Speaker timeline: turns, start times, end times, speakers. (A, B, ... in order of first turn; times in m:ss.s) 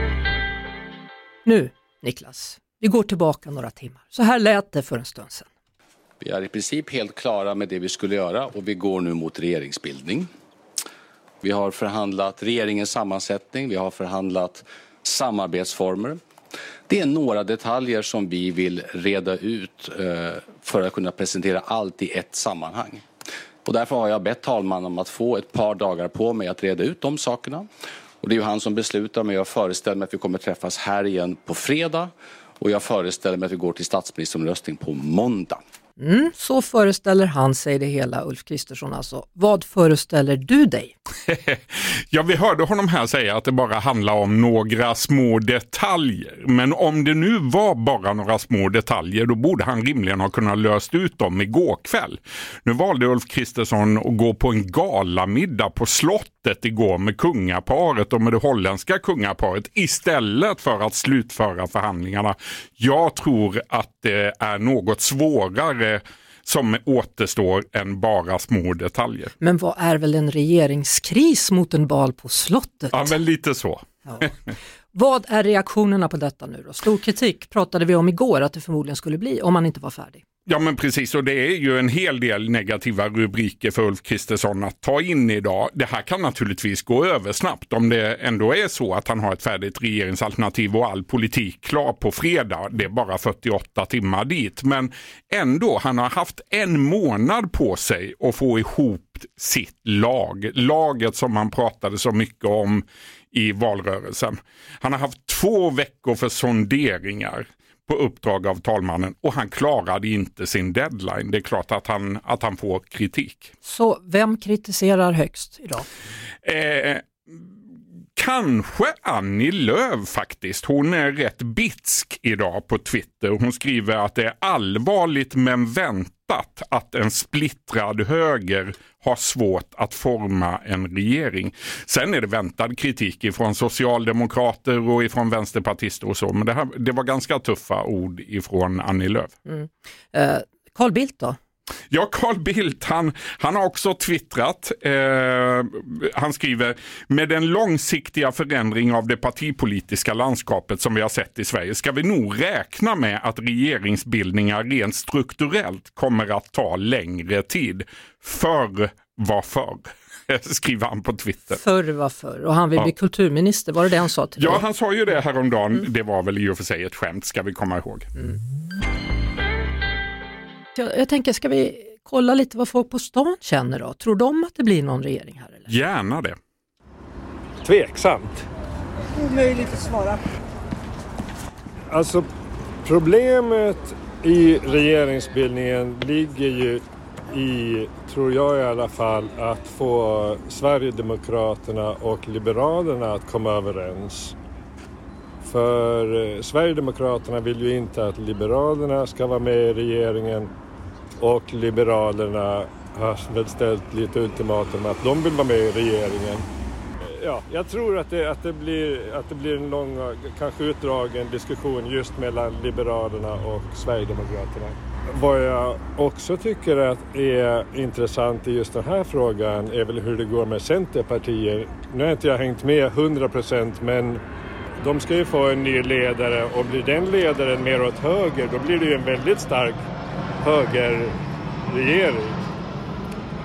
0:01.4-0:05.5 A
0:06.2-0:10.3 B
0:11.4-0:16.2 B
0:16.9-0:23.0 B
0:23.6-0:27.7 B
0:28.2-0:35.6 B
0:36.0-0:41.0 A
0:41.3-1:09.3 C
1:09.4-1:13.1 A
1:12.9-1:14.5 C
1:14.9-1:20.2 A
1:20.5-1:53.5 C
1:53.6-1:55.9 A
1:56.4-1:57.1 C
1:58.2-2:19.3 C
2:19.5-2:21.4 A
2:21.9-2:41.6 C
2:41.5-2:44.6 A
2:44.4-2:48.1 C
2:50.8-2:55.7 A
2:55.7-2:56.4 C
2:57.6-2:58.5 D
3:01.9-3:02.3 D
3:02.8-3:06.8 D
3:07.3-3:14.4 D
3:15.4-3:20.5 D
3:21.2-3:26.4 D
3:27.1-3:44.2 D
3:44.8-3:49.8 D
3:50.4-3:52.4 D